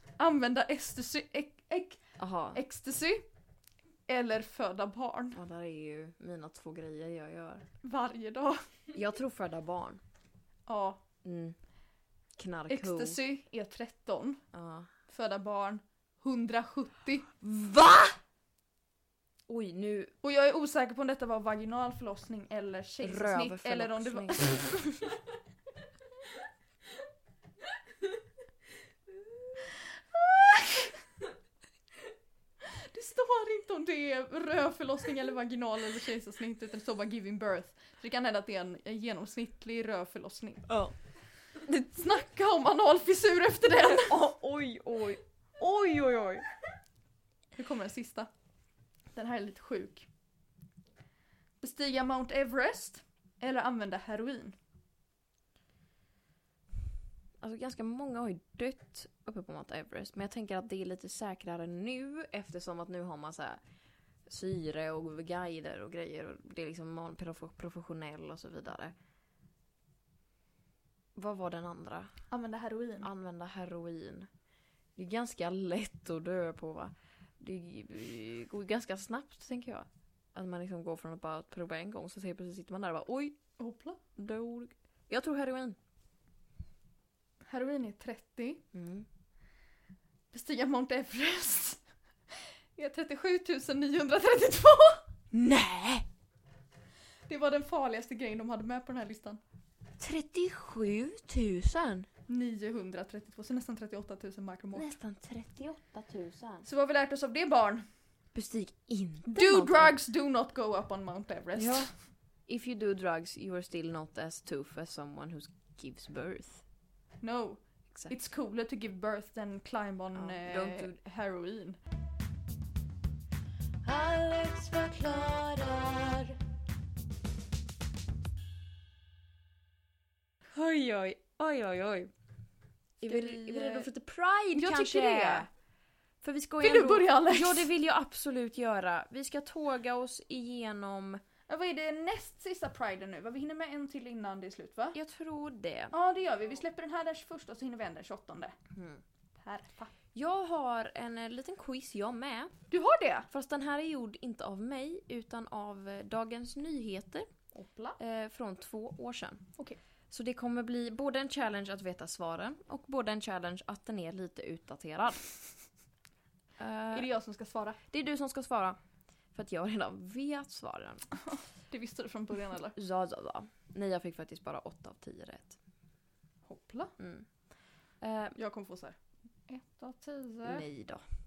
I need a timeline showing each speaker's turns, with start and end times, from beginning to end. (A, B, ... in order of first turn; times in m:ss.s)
0:00.2-0:02.0 A
0:02.2-0:02.6 B
0:02.5-0:03.3 A
0:04.1-0:05.4 A
0:05.3-0:07.7 B
0:07.8-0:08.6 A
0:08.9-0:10.0 B
0:10.7-0:11.0 A
0:11.2-0:11.6 B
0:12.4-0:13.2 B
0:12.7-0:14.4 A
0:14.5-0:14.9 B
0:15.1-0:17.3 A
0:17.4-0:18.2 B
0:19.5-0:20.1 B
0:20.2-0:24.8 A
0:23.0-0:25.2 B
0:30.1-0:31.0 A
0:32.6-0:40.7 A
0:40.7-0:40.9 B
0:41.7-0:41.9 B
0:41.9-0:44.2 A
0:43.8-0:46.5 B
0:47.6-0:48.3 A
0:49.1-0:50.1 A
0:51.6-0:54.6 A
0:57.4-1:03.6 B
1:04.3-1:08.9 B
1:11.2-1:12.1 B
1:12.3-1:13.1 A
1:13.0-1:14.3 B
1:15.0-1:23.4 B
1:23.6-1:24.0 A
1:24.2-1:25.8 B
1:27.4-1:28.6 A
1:28.7-1:29.1 B
1:30.3-1:35.0 A
1:35.3-1:36.1 B
1:37.3-1:39.4 A
1:40.0-1:42.1 B
1:42.3-1:44.9 A
1:44.8-1:46.7 B
1:46.6-1:47.9 A
1:48.4-1:50.0 B
1:49.3-1:51.9 A
1:51.6-1:51.9 B
1:52.5-1:56.6 B
1:57.2-2:01.8 A
2:00.1-2:01.0 B
2:03.9-2:06.1 B
2:10.5-2:12.1 B
2:13.0-2:15.5 B
2:13.0-2:13.9 A
2:14.6-2:15.5 A
2:16.2-2:21.2 B
2:16.6-2:17.7 A
2:21.5-2:25.0 A
2:24.9-2:26.0 B
2:25.9-2:28.6 A
2:28.8-2:29.0 B
2:29.4-2:29.9 A
2:30.1-2:32.5 B
2:32.7-2:33.3 A
2:33.3-2:37.3 B
2:37.5-2:38.0 A
2:38.0-2:39.5 B
2:40.1-2:45.3 B
2:46.6-2:47.1 B
2:46.9-2:47.8 A
2:47.9-2:48.8 B
2:49.3-2:51.1 B
2:51.3-2:52.8 A
2:52.8-2:55.6 B
2:56.5-2:56.9 A
2:57.0-2:57.3 B
2:58.0-2:58.4 B
2:58.4-3:00.7 A
3:00.4-3:01.0 B